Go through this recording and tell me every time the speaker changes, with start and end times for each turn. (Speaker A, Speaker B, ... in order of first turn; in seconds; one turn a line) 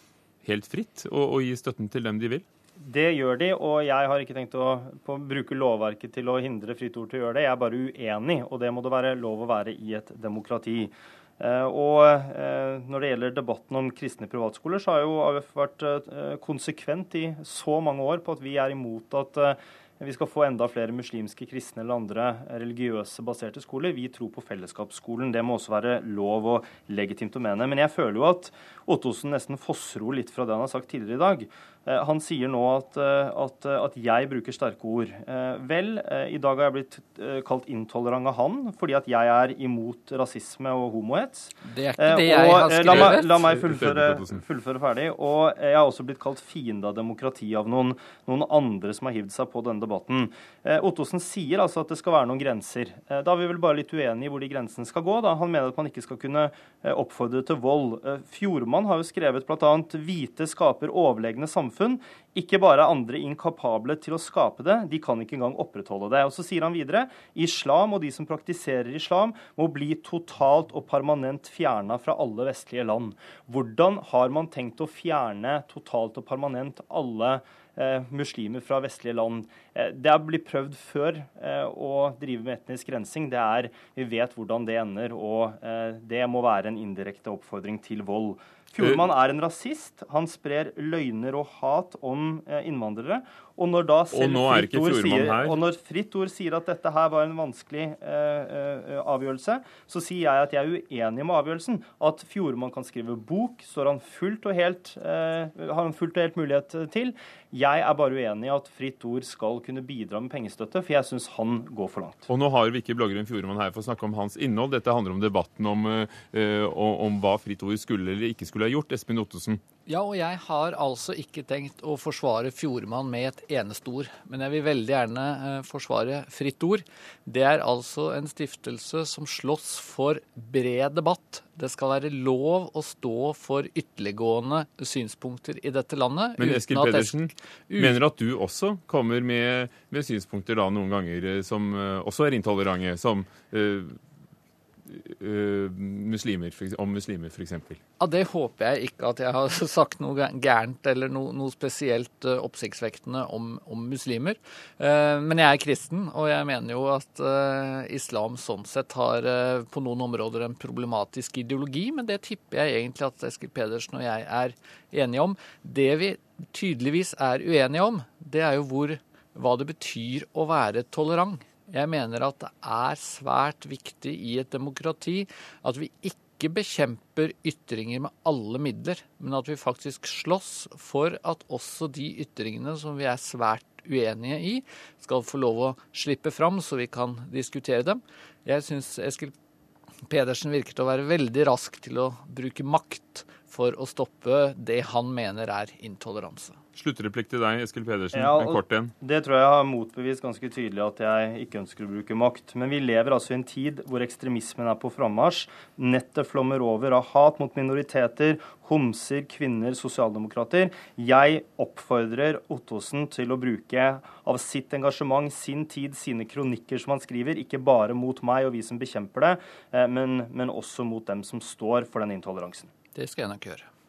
Speaker A: 0.4-2.5
Speaker B: 2.8-112.3
Speaker C: 41.6-43.5
Speaker A: 43.5-44.4
Speaker A: 94.1-95.6
Speaker A: 112.3-119.6
Speaker C: 119.9-137.2
Speaker A: 136.4-144.0
Speaker C: 137.7-138.0
Speaker A: 144.9-147.8
Speaker C: 148.0-189.3
Speaker C: 190.1-196.6
Speaker A: 196.8-198.9
Speaker B: 198.1-222.7
Speaker C: 222.9-223.7